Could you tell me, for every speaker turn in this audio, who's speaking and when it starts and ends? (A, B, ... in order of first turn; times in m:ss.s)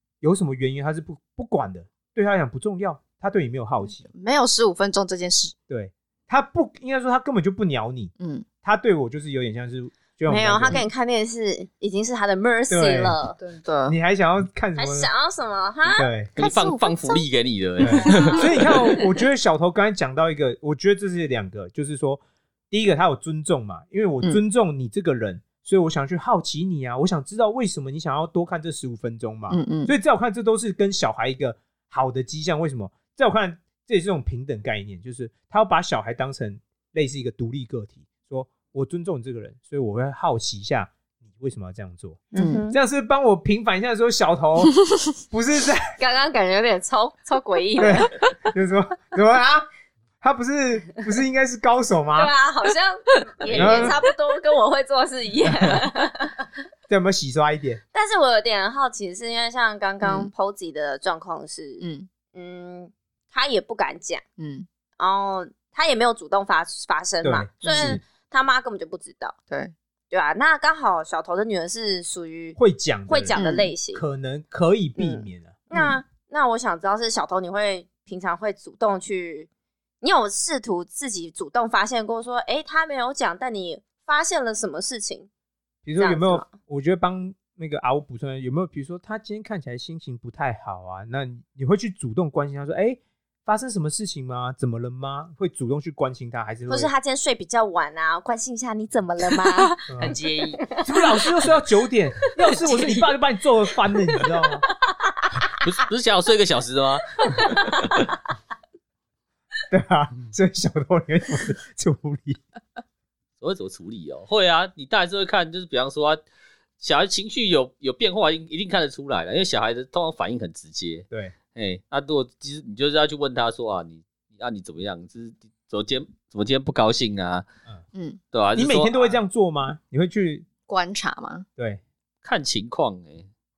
0:00.2-0:04.0 A
0:03.8-0:05.5 B
0:05.7-0:08.1 A
0:08.2-0:08.4 B
0:08.6-0:10.8 A
0:10.3-0:13.4 C
0:12.7-0:13.2 A
0:13.4-0:14.0 B
0:13.9-0:15.1 A
0:14.8-0:16.1 C
0:16.0-0:16.3 A
0:16.4-0:18.9 D
0:16.4-0:17.1 B
0:17.8-0:44.8 A
0:17.8-0:18.4 B
0:29.5-0:29.9 B
0:42.3-0:42.8 C
0:42.4-0:42.6 B
0:45.3-0:45.9 A
0:46.0-0:48.1 C
0:47.8-0:49.6 A
0:50.2-0:52.3 A
0:52.1-0:56.3 C
0:53.5-0:54.0 A
0:53.6-0:53.9 B
0:55.4-0:55.8 A
0:56.9-0:57.8 A
0:57.9-1:04.2 C
1:00.0-1:00.3 B
1:01.8-1:02.1 B
1:04.4-1:04.7 B
1:05.0-1:09.3 C
1:07.2-1:08.0 A
1:07.6-1:08.0 B
1:10.1-1:14.0 C
1:12.6-1:13.4 A
1:13.3-1:13.7 B
1:13.9-1:15.6 A
1:15.0-1:19.5 C
1:20.0-1:25.3 C
1:25.8-1:36.9 A
1:26.0-1:26.5 C
1:36.7-1:40.2 C
1:39.5-1:40.6 B
1:39.9-1:40.2 A
1:40.8-1:44.6 A
1:42.6-1:42.9 C
1:45.6-1:47.9 D
1:49.7-1:52.4 A
1:53.4-1:56.2 D
1:56.8-2:07.4 D
2:07.9-2:08.2 B
2:08.3-2:09.2 D
2:08.5-2:10.4 A
2:10.7-2:11.4 B
2:12.2-2:13.3 D